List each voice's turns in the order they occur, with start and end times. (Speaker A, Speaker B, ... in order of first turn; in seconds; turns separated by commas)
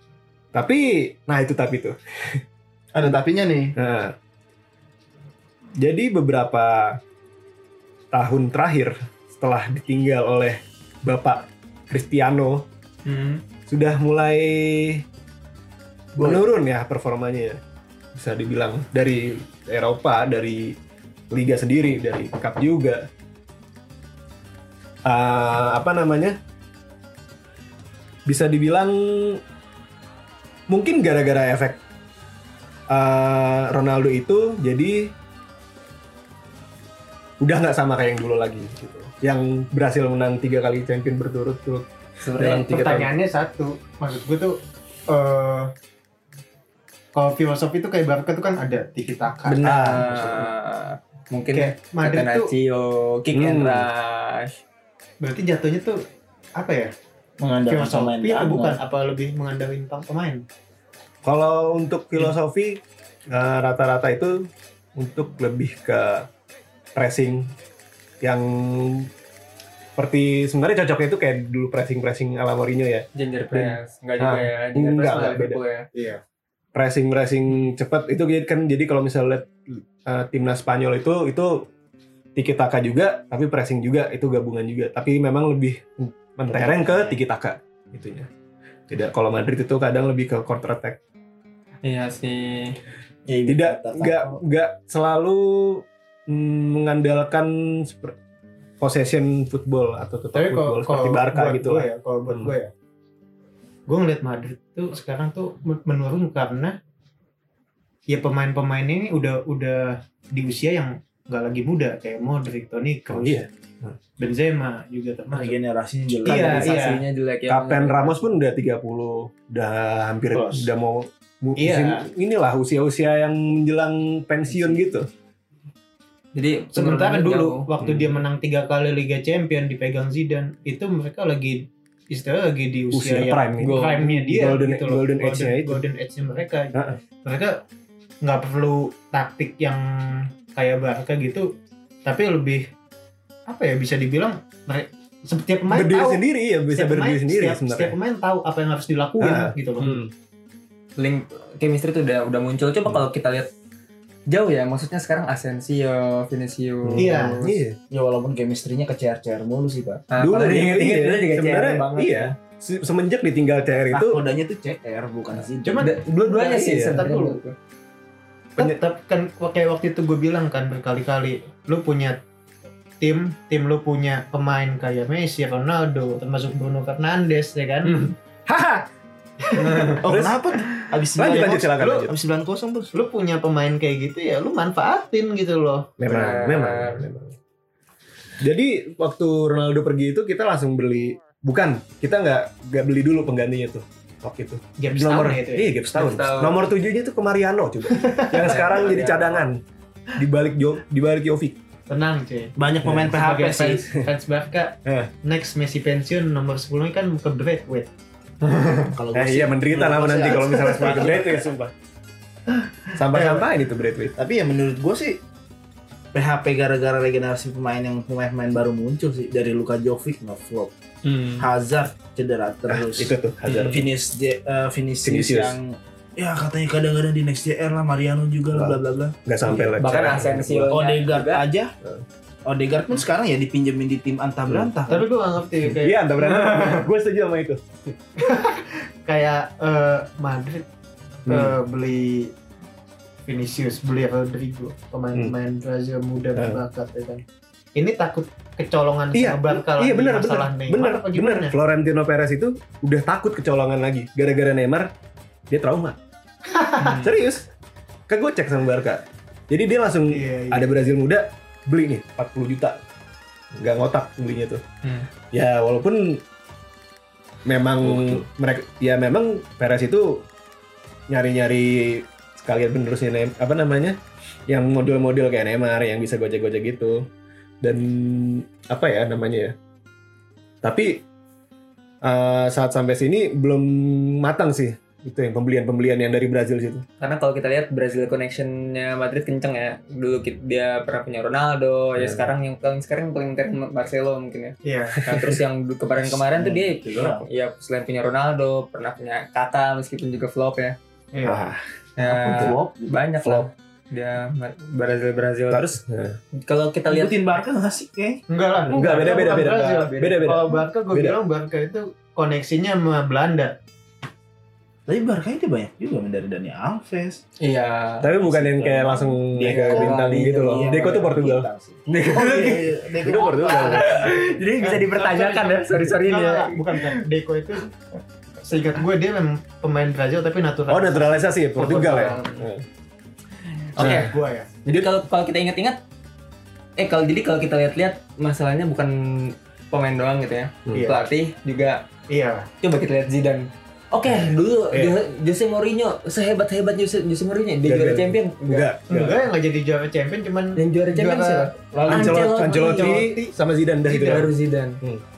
Speaker A: 0.5-2.4, Speaker B: 2.9-3.7, Speaker A: 3.8-4.1, Speaker A: 5.8-7.0, Speaker A: 8.1-12.6, Speaker C: 13.1-13.4, Speaker A: 13.7-15.0, Speaker B: 16.1-16.4, Speaker A: 16.2-17.6, Speaker A: 18.1-20.8, Speaker A: 21.3-23.1, Speaker A: 25.0-26.4, Speaker A: 28.2-29.4, Speaker A: 30.7-31.8, Speaker A: 32.9-35.1, Speaker A: 37.4-43.1, Speaker C: 42.2-42.8, Speaker D: 42.5-45.7, Speaker D: 47.1-49.6, Speaker C: 49.5-54.6, Speaker A: 49.6-50.5, Speaker D: 51.5-52.5, Speaker A: 53.3-53.9, Speaker D: 55.2-56.0, Speaker D: 56.5-56.9, Speaker B: 57.4-58.8, Speaker D: 57.7-60.4, Speaker A: 61.2-66.3, Speaker A: 66.9-67.5, Speaker A: 68.2-69.1, Speaker A: 70.0-75.6, Speaker C: 73.1-75.9, Speaker D: 75.9-76.2, Speaker A: 76.7-81.7, Speaker A: 82.3-88.3, Speaker B: 86.5-87.1, Speaker A: 88.9-91.0, Speaker C: 91.8-92.8, Speaker B: 93.3-94.4, Speaker A: 93.5-98.2, Speaker A: 98.8-102.5, Speaker D: 100.3-102.7, Speaker D: 103.9-106.8, Speaker D: 108.1-113.4, Speaker A: 113.1-114.0, Speaker D: 114.2-115.6, Speaker B: 115.3-116.8, Speaker D: 116.2-117.0, Speaker C: 116.2-118.2, Speaker A: 117.5-125.1, Speaker B: 120.3-120.7, Speaker D: 121.6-122.0, Speaker B: 124.5-124.8, Speaker C: 126.3-127.7, Speaker D: 126.7-137.6, Speaker A: 127.8-128.1, Speaker A: 132.9-135.8, Speaker A: 136.7-137.0, Speaker D: 138.2-141.5, Speaker D: 142.0-142.7, Speaker D: 143.5-149.9, Speaker A: 145.7-147.9, Speaker A: 149.2-150.1, Speaker C: 151.0-153.5, Speaker C: 154.3-157.6, Speaker A: 156.8-157.8, Speaker D: 157.0-157.4, Speaker B: 157.9-160.0, Speaker C: 160.1-162.3, Speaker A: 160.2-164.2, Speaker B: 163.9-165.9, Speaker D: 165.6-167.4, Speaker C: 165.8-167.5, Speaker A: 166.4-167.1, Speaker D: 168.6-172.2, Speaker D: 173.0-178.1, Speaker A: 178.5-178.8, Speaker D: 179.4-180.0, Speaker C: 179.6-180.0, Speaker B: 180.0-182.9, Speaker A: 180.0-180.4, Speaker A: 181.1-182.1, Speaker D: 181.3-182.1, Speaker D: 182.9-185.9, Speaker A: 186.0-187.3, Speaker C: 186.1-187.0, Speaker A: 188.4-199.6, Speaker D: 194.8-195.7, Speaker C: 195.9-196.6, Speaker D: 197.9-198.6, Speaker C: 198.4-199.4, Speaker A: 200.2-201.6, Speaker D: 201.9-207.9, Speaker B: 202.6-203.8, Speaker A: 202.8-203.2, Speaker A: 204.8-205.1, Speaker B: 208.8-211.4, Speaker A: 209.1-211.7, Speaker A: 212.9-214.1, Speaker D: 213.1-213.4, Speaker B: 214.2-215.2, Speaker B: 216.1-220.7, Speaker C: 221.0-221.4, Speaker B: 221.4-229.9, Speaker A: 222.7-223.9, Speaker C: 223.5-223.8, Speaker A: 225.0-225.6, Speaker A: 228.5-230.8, Speaker C: 229.8-231.4, Speaker B: 230.7-231.7, Speaker B: 232.4-235.1, Speaker D: 234.9-236.8, Speaker A: 235.6-237.9, Speaker D: 238.2-240.7, Speaker A: 241.3-241.6, Speaker D: 241.3-242.3, Speaker D: 243.2-247.2, Speaker A: 246.3-246.6, Speaker D: 247.8-251.5, Speaker A: 249.1-254.9, Speaker A: 255.5-256.0, Speaker D: 256.5-257.1, Speaker C: 256.8-257.1, Speaker A: 256.8-257.5, Speaker A: 258.1-262.8, Speaker D: 260.1-260.7, Speaker A: 263.5-264.6, Speaker A: 265.3-266.2, Speaker A: 267.4-270.2, Speaker B: 267.8-268.2, Speaker A: 271.1-274.0, Speaker A: 274.5-277.1, Speaker A: 277.6-279.6, Speaker A: 280.6-281.0, Speaker A: 282.0-286.8, Speaker C: 287.0-300.8, Speaker A: 292.0-292.3, Speaker D: 294.6-295.0, Speaker A: 295.1-295.4, Speaker B: 296.0-297.2, Speaker D: 301.1-301.5, Speaker A: 301.2-301.6, Speaker C: 302.0-305.8, Speaker B: 302.0-303.0, Speaker A: 305.5-306.2, Speaker C: 306.3-307.2, Speaker B: 306.9-308.2, Speaker D: 308.3-313.5, Speaker C: 308.7-310.4, Speaker A: 308.7-311.2, Speaker B: 314.9-317.2, Speaker C: 317.4-318.1, Speaker A: 318.0-321.5, Speaker B: 318.2-324.1, Speaker C: 319.4-321.2, Speaker C: 321.9-322.6, Speaker A: 322.1-324.0, Speaker C: 323.4-327.0, Speaker D: 324.6-327.7, Speaker D: 328.4-332.2, Speaker A: 330.7-332.6, Speaker C: 331.6-332.5, Speaker C: 333.7-334.1, Speaker A: 333.8-334.1, Speaker D: 333.8-334.5, Speaker C: 334.6-335.8, Speaker C: 336.8-341.8, Speaker A: 340.6-340.9, Speaker D: 340.7-341.0, Speaker D: 342.1-342.5, Speaker C: 342.6-348.7, Speaker A: 344.1-344.9, Speaker A: 347.6-349.2, Speaker D: 348.9-353.3, Speaker C: 350.6-353.0, Speaker B: 351.8-352.1, Speaker A: 351.9-354.3, Speaker C: 353.9-354.8